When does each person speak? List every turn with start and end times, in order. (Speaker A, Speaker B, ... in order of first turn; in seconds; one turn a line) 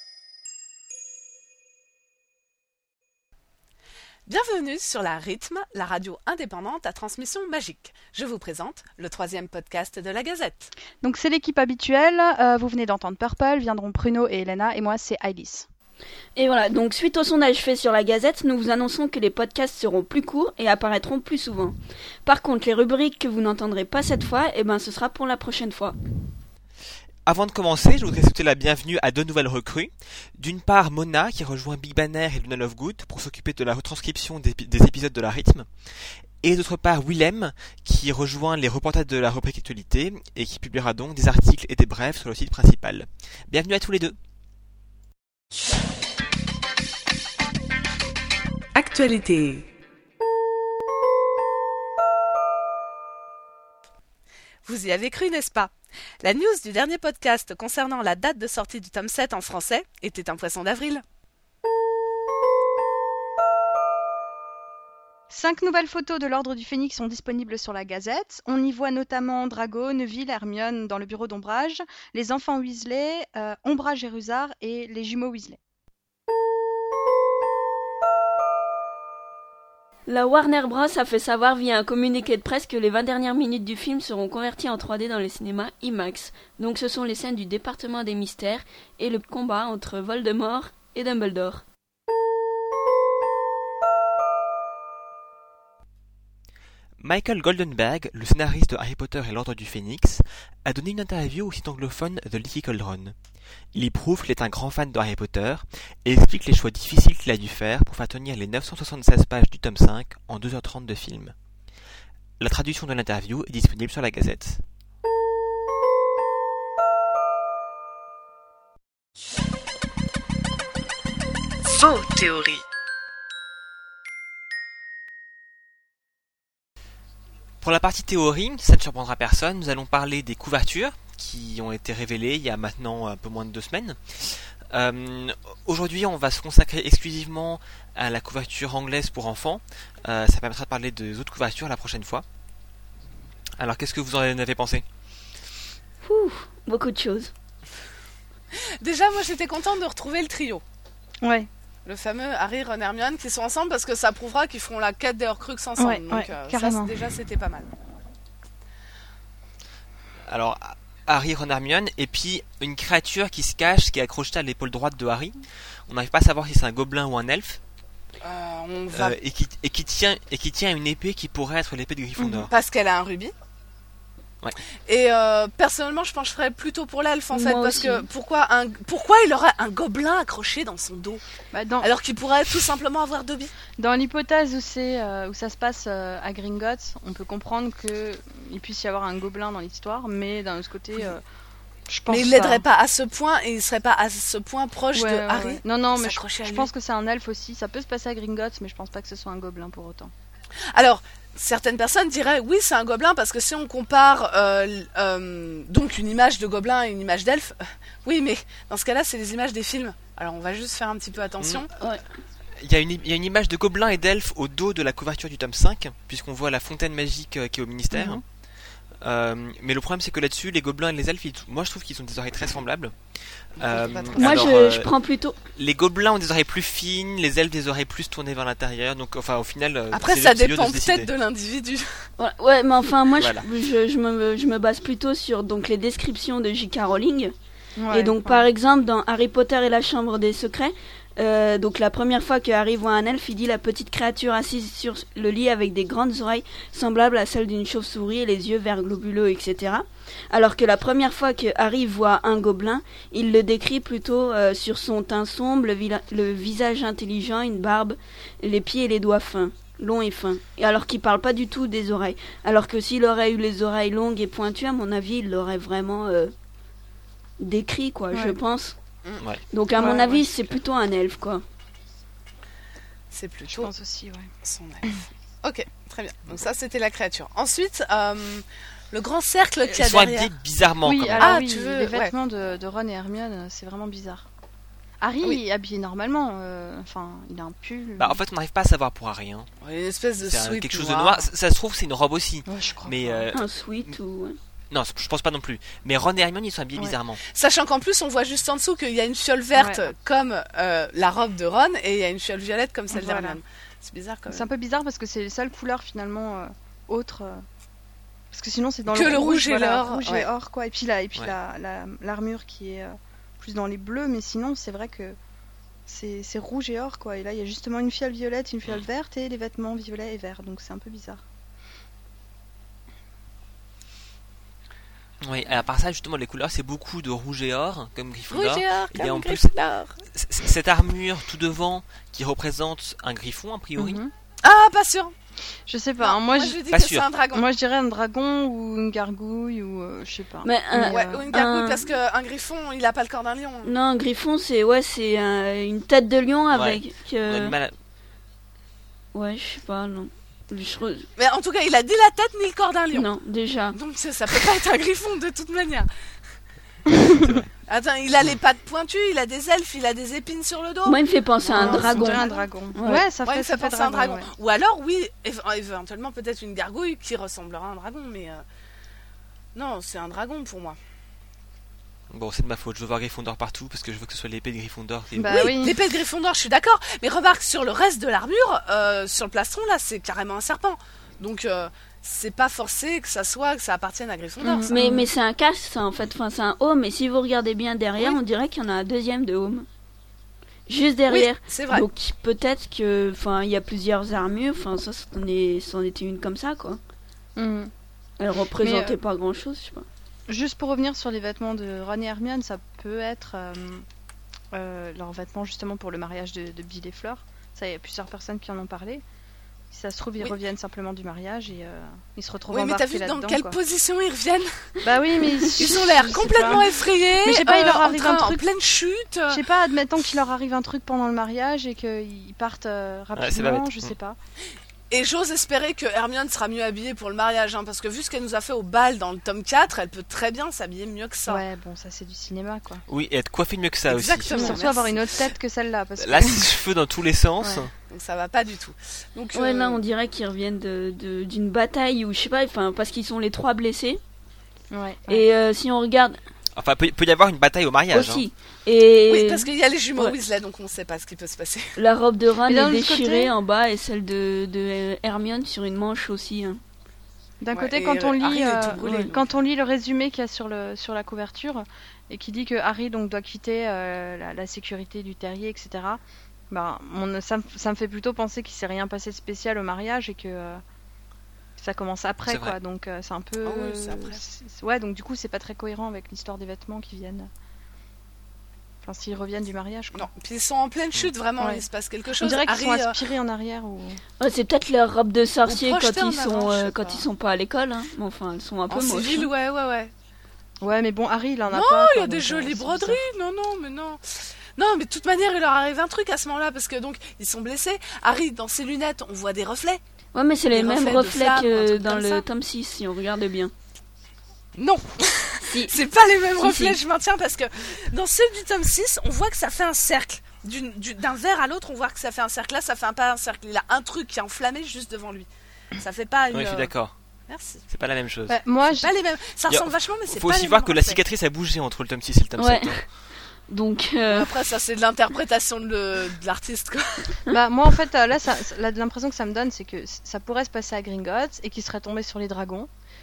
Speaker A: 4.3-10.7
Speaker B: 11.0-15.7
Speaker C: 16.4-26.0
Speaker D: 27.3-35.7
Speaker D: 36.4-44.2
Speaker A: 48.8-49.7
Speaker A: 54.6-61.0
Speaker B: 65.3-75.6
Speaker C: 80.1-91.6
Speaker D: 97.0-103.2
Speaker D: 103.7-111.3
Speaker D: 112.4-114.6
Speaker A: 121.7-122.6
Speaker D: 127.6-142.2
Speaker D: 143.6-144.8
Speaker C: 146.0-147.3
Speaker A: 148.6-150.6
Speaker B: 151.2-151.5
Speaker A: 151.9-157.7
Speaker B: 155.8-156.9
Speaker D: 160.3-167.6
Speaker A: 168.2-169.2
Speaker D: 168.9-172.5
Speaker B: 172.2-172.5
Speaker A: 172.5-173.3
Speaker A: 174.9-181.2
Speaker C: 177.3-178.1
Speaker B: 181.5-181.9
Speaker A: 181.8-183.5
Speaker B: 183.8-191.2
Speaker B: 191.9-192.7
Speaker A: 192.1-196.7
Speaker B: 194.9-200.1
Speaker A: 200.7-211.7
Speaker D: 211.4-211.7
Speaker D: 212.6-218.2
Speaker B: 217.9-218.2
Speaker D: 219.0-222.9
Speaker D: 223.6-224.9
Speaker A: 223.6-224.4
Speaker C: 224.2-225.4
Speaker D: 225.6-231.1
Speaker A: 229.9-232.1
Speaker C: 232.2-237.3
Speaker D: 233.2-233.5
Speaker B: 237.8-238.5
Speaker C: 237.9-266.3
Speaker C: 267.4-268.8
Speaker B: 268.1-268.4
Speaker C: 269.5-271.4
Speaker B: 269.8-270.2
Speaker A: 273.1-273.7
Speaker B: 273.5-274.3
Speaker A: 274.4-280.3
Speaker D: 279.7-281.4
Speaker B: 280.8-284.3
Speaker A: 281.2-282.1
Speaker B: 285.0-288.2
Speaker D: 288.0-289.5
Speaker A: 289.6-291.3
Speaker D: 290.2-293.9
Speaker B: 292.5-293.3
Speaker C: 293.3-294.4
Speaker D: 294.7-297.2
Speaker A: 297.3-304.5
Speaker B: 299.6-299.9
Speaker B: 302.9-303.4
Speaker B: 304.3-307.4
Speaker B: 308.3-315.2
Speaker A: 308.9-310.3
Speaker B: 315.9-321.2
Speaker D: 325.2-329.5
Speaker A: 328.3-330.0
Speaker D: 330.1-334.0
Speaker B: 333.8-334.1
Speaker A: 334.4-335.1
Speaker B: 335.7-336.6
Speaker A: 336.0-337.5
Speaker D: 336.7-337.1
Speaker B: 337.3-341.3
Speaker C: 340.4-341.9
Speaker A: 340.9-343.7
Speaker C: 343.6-347.6
Speaker D: 346.5-347.8
Speaker C: 349.1-351.1
Speaker A: 351.2-353.1
Speaker C: 352.9-353.8
Speaker A: 353.7-355.9
Speaker D: 357.1-357.5
Speaker A: 357.7-362.5
Speaker C: 360.9-363.0
Speaker B: 361.6-364.3
Speaker A: 363.2-368.4
Speaker A: 369.6-370.8
Speaker D: 372.1-375.5
Speaker B: 375.2-375.7
Speaker A: 375.3-384.7
Speaker B: 384.4-385.1
Speaker C: 384.7-389.7
Speaker C: 390.7-396.8
Speaker A: 391.1-391.9
Speaker B: 397.4-397.7
Speaker C: 398.2-399.9
Speaker B: 398.6-398.9
Speaker B: 400.3-403.9
Speaker B: 404.5-409.0
Speaker B: 409.7-413.6
Speaker A: 412.5-414.5
Speaker B: 414.8-418.4
Speaker A: 415.5-419.4
Speaker B: 419.3-424.2
Speaker D: 423.1-423.9
Speaker A: 424.9-431.4
Speaker B: 431.3-432.8
Speaker D: 432.9-434.3
Speaker A: 433.9-435.0
Speaker C: 434.3-434.8
Speaker B: 434.4-436.5
Speaker D: 436.0-437.7
Speaker B: 437.4-437.7
Speaker A: 437.9-439.8
Speaker C: 439.3-444.0
Speaker B: 444.7-445.3
Speaker C: 445.1-446.2
Speaker D: 446.6-448.2
Speaker C: 447.9-450.2
Speaker A: 449.1-451.8
Speaker C: 451.8-456.6
Speaker B: 452.5-453.3
Speaker B: 457.4-470.6
Speaker A: 457.5-459.4
Speaker B: 471.6-477.3
Speaker D: 472.3-472.6
Speaker A: 473.4-474.2
Speaker B: 478.9-480.1
Speaker A: 479.9-483.0
Speaker B: 482.2-484.0
Speaker C: 484.2-489.3
Speaker A: 485.5-487.1
Speaker A: 488.7-489.9
Speaker B: 490.6-493.0
Speaker A: 491.5-494.0
Speaker A: 494.6-499.8
Speaker C: 500.1-503.5
Speaker A: 500.5-502.3
Speaker A: 504.6-516.7
Speaker C: 505.4-505.8
Speaker C: 506.4-506.8
Speaker D: 516.3-516.9
Speaker A: 517.3-517.6
Speaker D: 517.7-518.4
Speaker B: 518.3-518.9
Speaker A: 518.8-521.0
Speaker D: 519.5-522.9
Speaker C: 522.4-522.8
Speaker C: 523.5-524.3
Speaker A: 524.1-527.2
Speaker B: 527.3-532.7